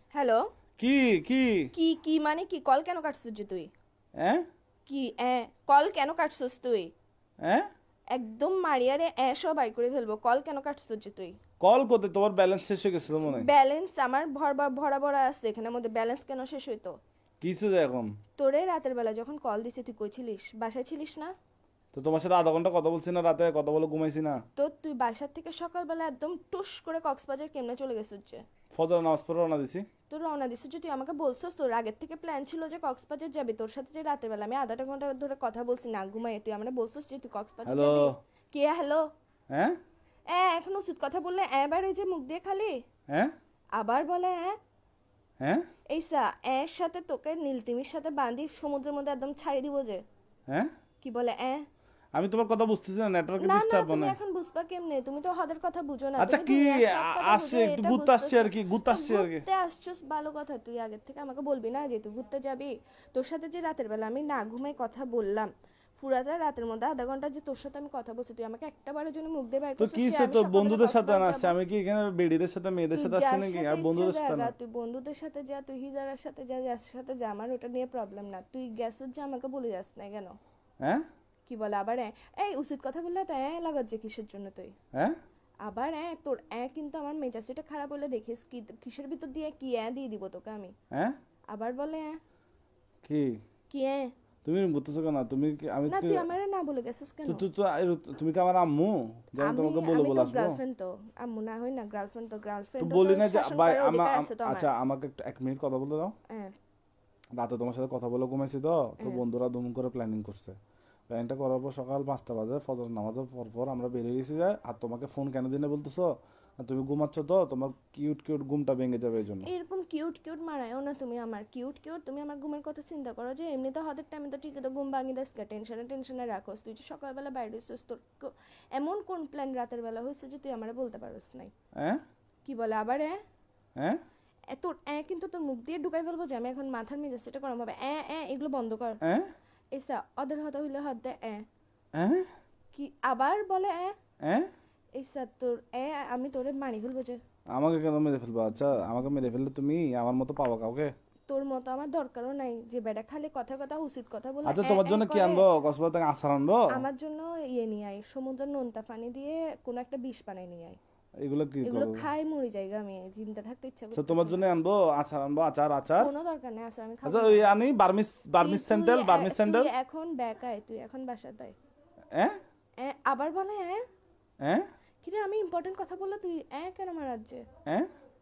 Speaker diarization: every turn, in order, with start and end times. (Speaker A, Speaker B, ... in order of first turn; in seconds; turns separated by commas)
Speaker A: 0.1-0.4, Speaker B: 0.8-1.7, Speaker A: 1.7-3.7, Speaker A: 4.9-6.9, Speaker A: 8.1-11.4, Speaker B: 11.6-13.5, Speaker A: 13.2-16.9, Speaker B: 17.4-18.1, Speaker A: 18.4-21.3, Speaker B: 21.9-24.4, Speaker A: 24.6-28.4, Speaker B: 28.7-29.9, Speaker A: 30.1-39.0, Speaker B: 37.6-38.1, Speaker A: 40.3-42.8, Speaker A: 43.8-44.5, Speaker A: 45.9-50.0, Speaker A: 51.0-51.6, Speaker B: 52.1-54.2, Speaker A: 53.4-71.5, Speaker B: 56.2-59.4, Speaker B: 69.8-74.5, Speaker A: 72.9-80.3, Speaker A: 81.5-84.7, Speaker A: 85.6-90.7, Speaker A: 91.5-92.2, Speaker B: 93.0-93.4, Speaker A: 93.7-94.1, Speaker B: 94.4-96.2, Speaker A: 95.9-97.4, Speaker B: 97.2-100.6, Speaker A: 99.4-104.7, Speaker B: 102.8-106.1, Speaker A: 106.3-106.5, Speaker B: 107.3-110.6, Speaker B: 111.1-116.1, Speaker B: 116.6-119.5, Speaker A: 119.4-131.5, Speaker A: 132.4-133.2, Speaker A: 134.5-139.0, Speaker A: 139.7-141.4, Speaker B: 141.9-142.2, Speaker A: 142.7-143.9, Speaker A: 144.9-147.2, Speaker B: 147.5-150.9, Speaker A: 151.3-155.4, Speaker B: 154.4-156.7, Speaker A: 156.7-160.8, Speaker B: 161.2-162.0, Speaker A: 161.6-164.4, Speaker B: 163.9-166.1, Speaker A: 166.0-167.5, Speaker B: 167.0-169.7, Speaker A: 168.4-171.5, Speaker A: 172.8-173.8, Speaker A: 175.0-177.4